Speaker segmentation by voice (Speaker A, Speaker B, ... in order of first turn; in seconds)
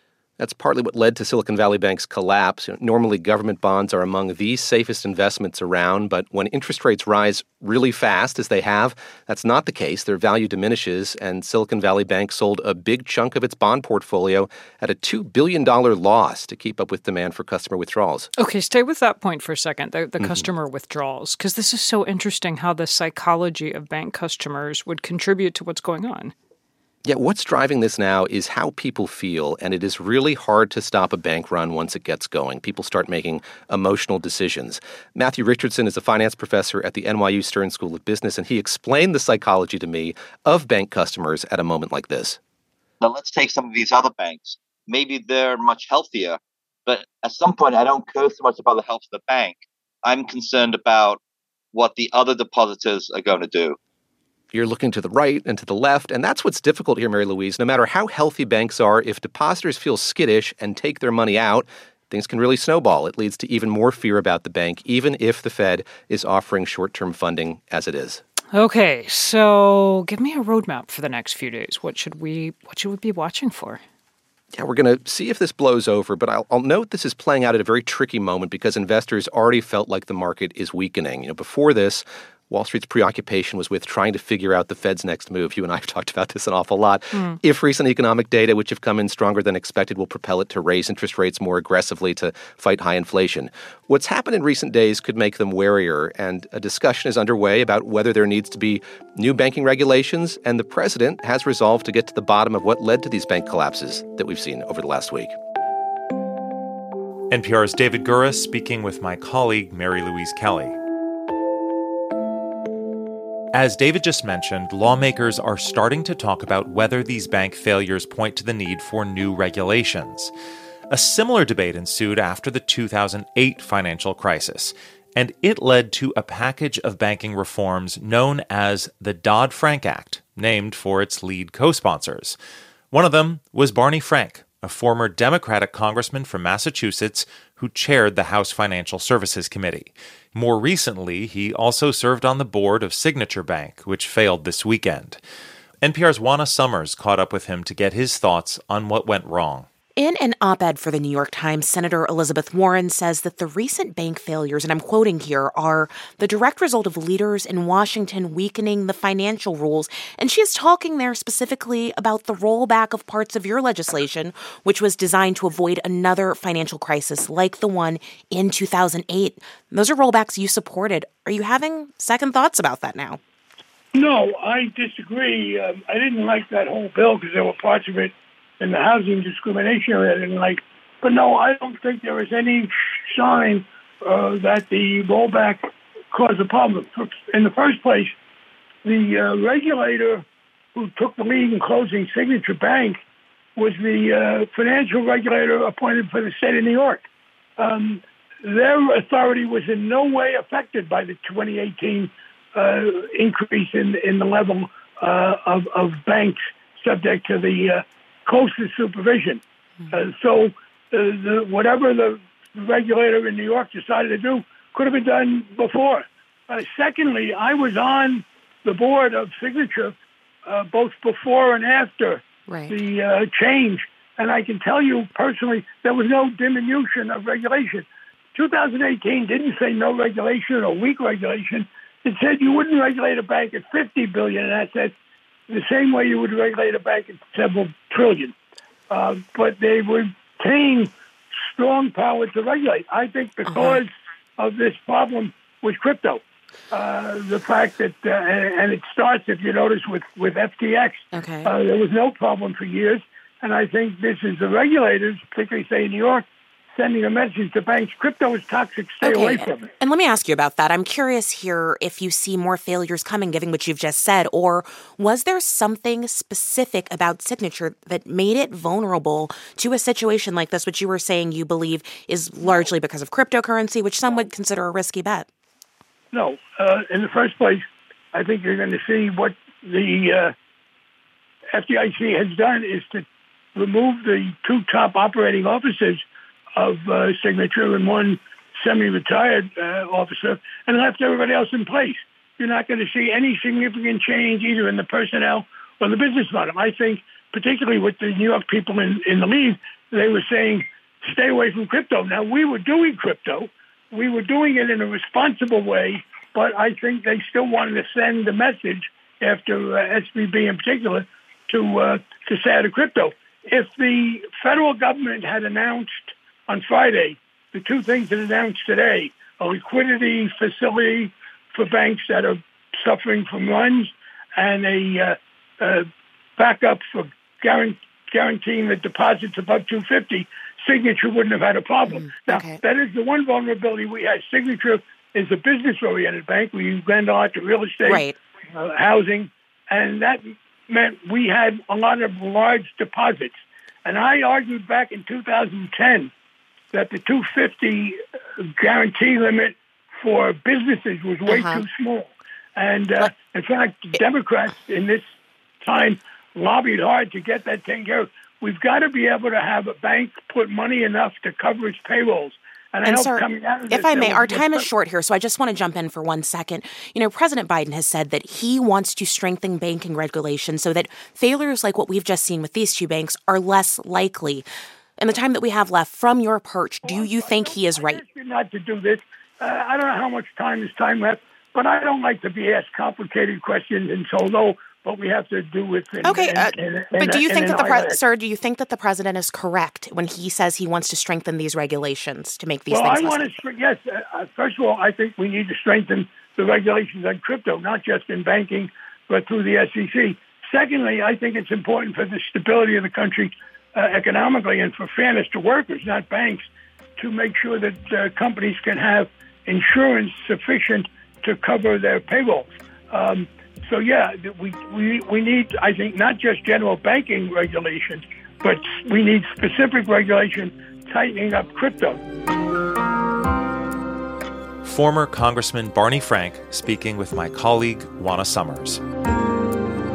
Speaker A: 0.4-18.3, 20.2-20.5, 27.0-42.4, 54.5-68.2, 74.5-105.3
Speaker B: 18.4-26.3, 68.5-73.8
Speaker C: 43.0-51.2, 51.7-53.8
Speaker D: 107.3-110.8, 113.5-120.3, 120.9-132.4, 132.9-145.2, 145.8-149.7, 424.6-428.8
Speaker E: 150.0-173.2, 222.5-222.8, 243.5-243.8, 251.1-251.5, 259.0-275.3, 331.9-332.6, 337.8-338.2, 351.3-351.6, 362.8-374.5, 375.0-378.0, 386.0-393.4
Speaker F: 173.9-188.2, 188.8-193.0, 193.6-197.1, 197.6-234.9, 235.5-238.3, 238.9-240.9, 241.5-259.7, 276.1-280.3, 281.5-286.1, 286.6-338.0, 338.5-346.1, 346.7-355.1, 355.6-364.6, 376.8-387.9, 392.7-422.0